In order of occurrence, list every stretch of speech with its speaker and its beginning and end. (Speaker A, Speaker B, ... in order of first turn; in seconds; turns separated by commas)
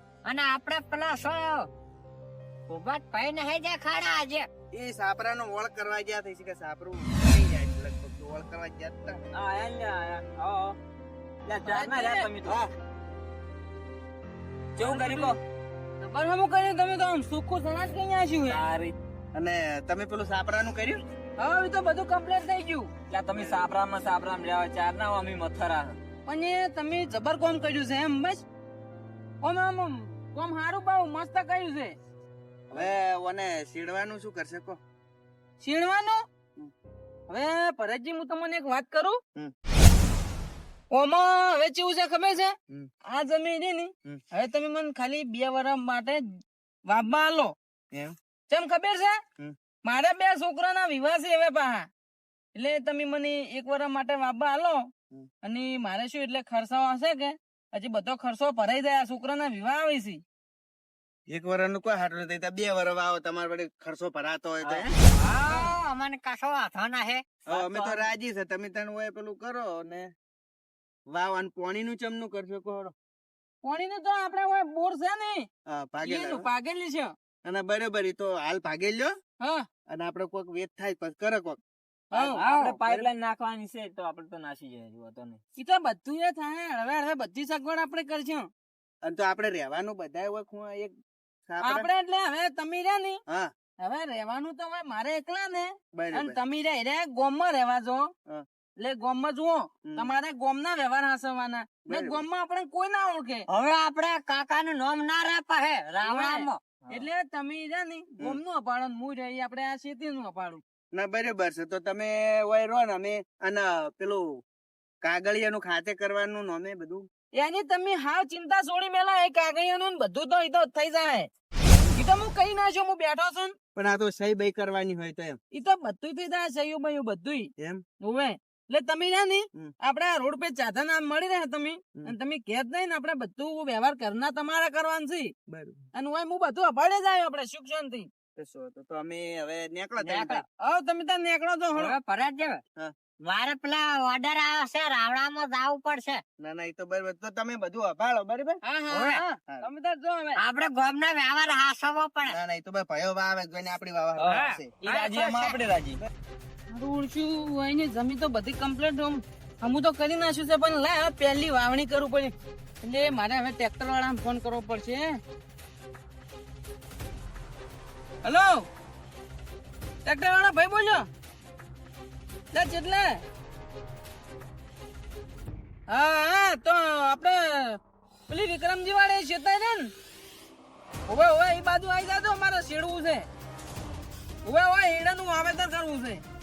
Speaker A: 0.2-1.7, Speaker A: 2.7-4.5, Speaker B: 4.7-9.2, Speaker C: 9.3-10.8, Speaker C: 11.4-12.6, Speaker D: 11.6-12.3, Speaker C: 14.8-15.4, Speaker D: 14.8-15.4, Speaker D: 16.0-18.6, Speaker C: 18.5-18.9, Speaker B: 19.3-21.0, Speaker D: 21.4-22.9, Speaker C: 23.1-26.0, Speaker B: 23.3-23.6, Speaker D: 26.2-28.4, Speaker D: 29.4-32.0, Speaker B: 32.7-34.8, Speaker D: 35.6-36.2, Speaker D: 37.3-39.2, Speaker D: 40.9-42.5, Speaker D: 43.0-47.5, Speaker D: 48.5-49.2, Speaker D: 49.8-51.9, Speaker D: 52.5-54.9, Speaker D: 55.4-60.2, Speaker B: 61.3-64.9, Speaker A: 65.2-67.2, Speaker B: 67.5-70.1, Speaker C: 67.5-68.2, Speaker B: 71.1-72.9, Speaker D: 73.6-75.5, Speaker B: 75.7-76.5, Speaker D: 76.0-77.1, Speaker B: 77.4-79.1, Speaker D: 79.4-79.7, Speaker B: 79.9-81.6, Speaker D: 82.1-82.6, Speaker C: 82.1-85.4, Speaker B: 82.8-83.1, Speaker D: 85.5-88.5, Speaker B: 89.0-91.0, Speaker B: 91.5-91.9, Speaker D: 91.6-93.2, Speaker B: 93.3-93.5, Speaker D: 93.8-98.1, Speaker B: 95.9-96.4, Speaker D: 98.8-103.5, Speaker B: 99.8-100.1, Speaker B: 101.8-102.2, Speaker A: 103.5-106.6, Speaker D: 106.0-110.6, Speaker B: 110.9-114.4, Speaker B: 115.0-117.1, Speaker D: 117.3-121.3, Speaker D: 121.9-123.5, Speaker B: 123.7-125.4, Speaker D: 125.5-135.3, Speaker B: 127.6-127.8, Speaker B: 135.5-135.8, Speaker D: 135.9-138.1, Speaker B: 138.3-140.4, Speaker A: 140.0-140.4, Speaker D: 140.6-142.0, Speaker A: 141.7-142.6, Speaker A: 143.2-146.2, Speaker B: 146.4-148.6, Speaker D: 148.6-150.4, Speaker A: 148.9-149.2, Speaker A: 150.4-152.4, Speaker B: 152.3-154.8, Speaker C: 154.2-156.0, Speaker A: 154.8-155.6, Speaker D: 156.7-165.2, Speaker D: 168.2-168.6, Speaker D: 170.0-171.1, Speaker D: 172.5-173.2, Speaker D: 175.9-179.9, Speaker D: 181.1-183.3, Speaker D: 184.4-186.2